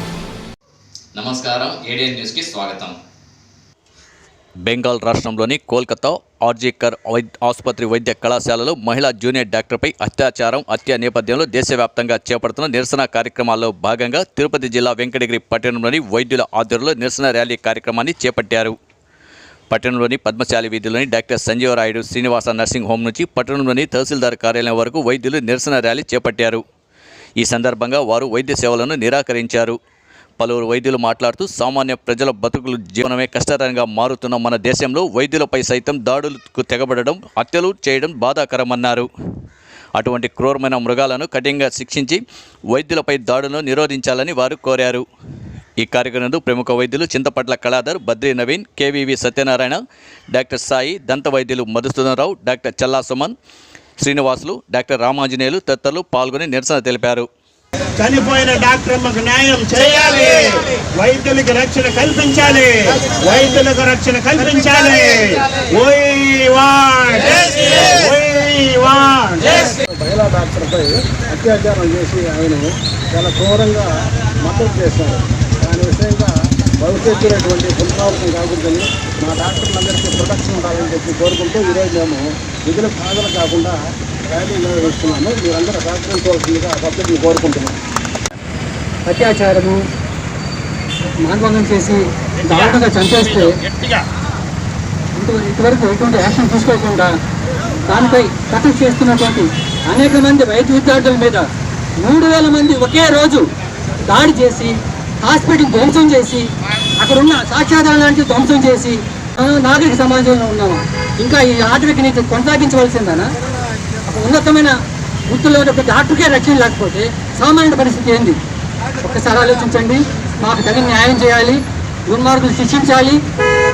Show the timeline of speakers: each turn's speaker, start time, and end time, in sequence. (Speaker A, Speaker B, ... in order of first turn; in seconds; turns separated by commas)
Speaker A: 1.1-3.0, Speaker A: 4.6-18.8, Speaker A: 19.7-26.6, Speaker A: 27.4-29.8, Speaker A: 30.4-39.1, Speaker A: 40.0-45.0, Speaker A: 45.8-53.3, Speaker A: 54.0-57.3, Speaker B: 58.0-69.7, Speaker C: 69.6-87.8, Speaker D: 89.0-89.8, Speaker D: 91.2-93.6, Speaker B: 93.6-94.0, Speaker D: 95.1-97.1, Speaker D: 97.9-103.5, Speaker D: 104.0-113.3, Speaker D: 114.0-114.8, Speaker D: 115.3-118.4, Speaker D: 119.0-123.2